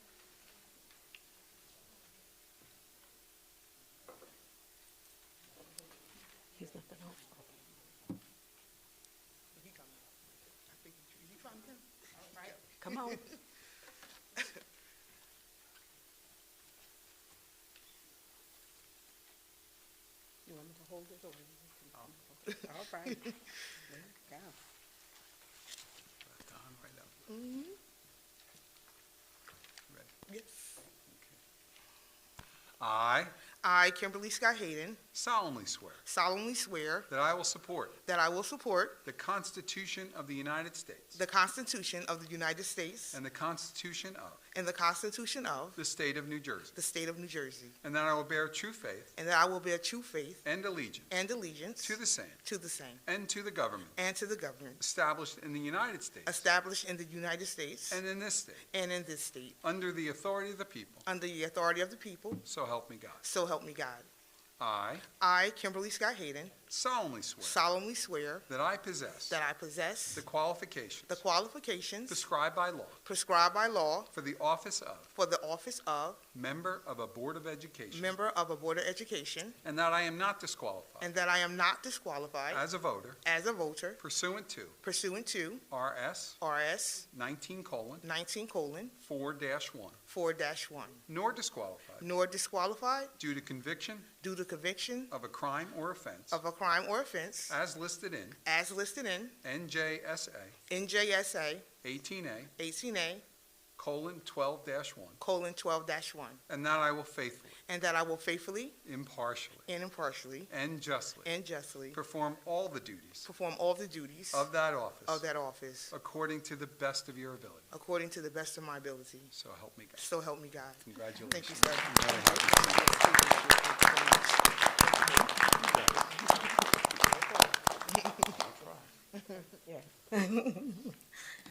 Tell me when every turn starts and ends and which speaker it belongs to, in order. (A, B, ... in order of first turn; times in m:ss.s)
0:06.6-0:07.4 A
0:09.6-0:10.1 B
0:10.7-0:13.3 B
0:12.7-0:13.3 A
0:20.5-0:23.3 A
0:22.5-0:23.4 B
0:23.9-0:24.6 A
0:26.2-0:27.2 C
0:27.3-0:27.8 B
0:31.1-0:31.4 C
0:32.8-0:33.4 C
0:33.6-0:35.0 B
0:35.1-0:36.0 C
0:36.1-0:37.1 B
0:37.1-0:38.0 C
0:38.1-0:39.0 B
0:39.0-0:41.2 C
0:41.2-0:43.2 B
0:43.1-0:44.4 C
0:44.5-0:45.8 B
0:45.8-0:46.8 C
0:46.7-0:47.8 B
0:47.8-0:49.1 C
0:49.2-0:50.5 B
0:50.4-0:51.2 C
0:51.1-0:53.0 B
0:51.8-0:52.4 C
0:53.0-0:54.0 C
0:54.0-0:54.8 B
0:54.8-0:56.5 C
0:56.3-0:58.0 B
0:57.9-0:58.7 C
0:58.7-0:59.6 B
0:59.6-1:01.0 C
1:01.1-1:02.5 B
1:02.4-1:03.2 C
1:03.2-1:04.1 B
1:04.6-1:05.1 C
1:05.1-1:06.6 B
1:06.7-1:07.6 C
1:07.4-1:08.5 B
1:08.5-1:09.4 C
1:09.3-1:10.3 B
1:10.2-1:11.2 C
1:11.1-1:12.2 B
1:12.1-1:13.0 C
1:13.0-1:14.1 B
1:14.1-1:15.1 C
1:15.2-1:16.2 B
1:16.3-1:18.2 C
1:17.9-1:19.6 B
1:19.6-1:21.1 C
1:21.0-1:22.6 B
1:22.5-1:23.2 C
1:23.2-1:24.0 B
1:24.0-1:24.8 C
1:24.8-1:25.7 B
1:25.7-1:26.4 C
1:26.4-1:27.1 B
1:27.1-1:28.0 C
1:28.0-1:29.0 B
1:29.0-1:30.0 C
1:30.1-1:31.0 B
1:31.1-1:32.1 C
1:32.0-1:33.1 B
1:33.2-1:34.1 C
1:34.2-1:35.1 B
1:35.1-1:36.4 C
1:36.3-1:37.6 B
1:37.5-1:38.4 C
1:38.4-1:39.4 B
1:39.4-1:40.6 C
1:40.7-1:41.7 B
1:41.8-1:42.5 C
1:42.6-1:43.2 B
1:43.8-1:45.2 C
1:45.2-1:46.4 B
1:46.5-1:47.6 C
1:47.7-1:48.8 B
1:48.8-1:49.7 C
1:49.7-1:50.5 B
1:50.5-1:51.3 C
1:51.2-1:52.0 B
1:51.9-1:53.3 C
1:53.2-1:54.5 B
1:54.3-1:55.3 C
1:55.1-1:55.9 B
1:55.9-1:57.7 C
1:57.7-1:59.3 B
1:59.3-2:00.1 C
2:00.0-2:08.5 B
2:00.8-2:03.0 C
2:05.7-2:06.0 C
2:08.4-2:08.9 C
2:09.1-2:09.6 B
2:09.7-2:11.0 A